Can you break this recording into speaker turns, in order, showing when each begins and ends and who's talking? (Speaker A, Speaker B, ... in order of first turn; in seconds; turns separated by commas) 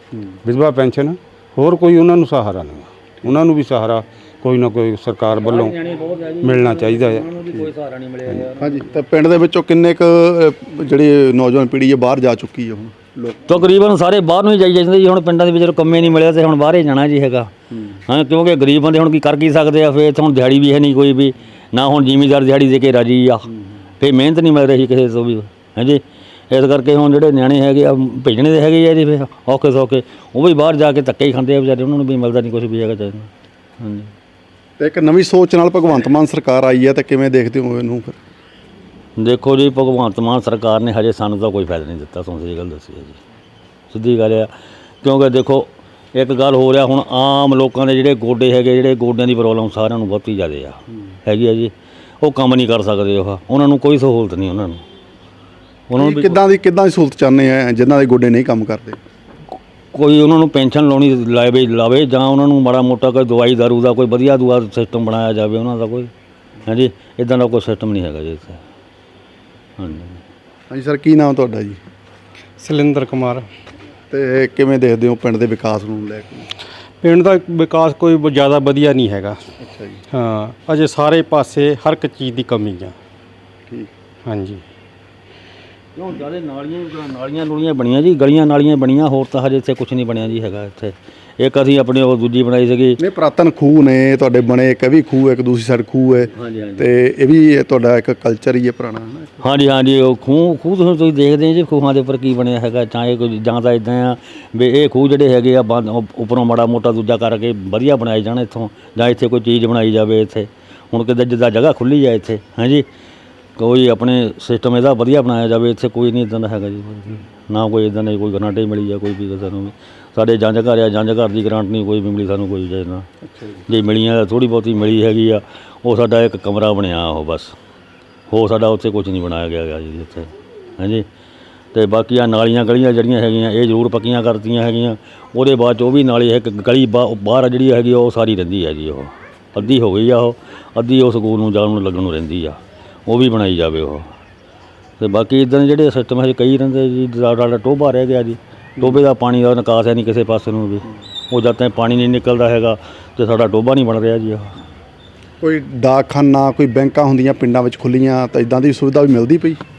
Speaker A: 0.1-0.4, Speaker B: 0.5-5.7, Speaker C: 5.3-8.8, Speaker B: 6.4-7.2, Speaker A: 8.5-13.7, Speaker C: 13.5-17.5, Speaker A: 17.7-18.0, Speaker C: 18.1-23.5, Speaker C: 24.0-34.1, Speaker A: 34.8-38.2, Speaker C: 39.2-43.2, Speaker C: 43.9-44.5, Speaker C: 45.0-54.8, Speaker C: 55.9-56.4, Speaker A: 56.0-59.0, Speaker C: 59.9-66.1, Speaker C: 66.7-68.6, Speaker C: 69.8-70.2, Speaker A: 70.7-71.8, Speaker D: 72.6-73.5, Speaker A: 74.1-76.5, Speaker D: 77.0-79.5, Speaker A: 79.6-80.0, Speaker D: 80.1-83.0, Speaker D: 84.2-84.6, Speaker C: 86.0-93.0, Speaker A: 93.0-99.4, Speaker C: 96.3-96.9, Speaker C: 99.4-112.9, Speaker C: 113.6-123.1, Speaker A: 123.2-123.7, Speaker C: 123.7-127.5, Speaker C: 128.3-131.1, Speaker C: 131.7-144.1, Speaker C: 145.0-154.6, Speaker A: 155.4-159.6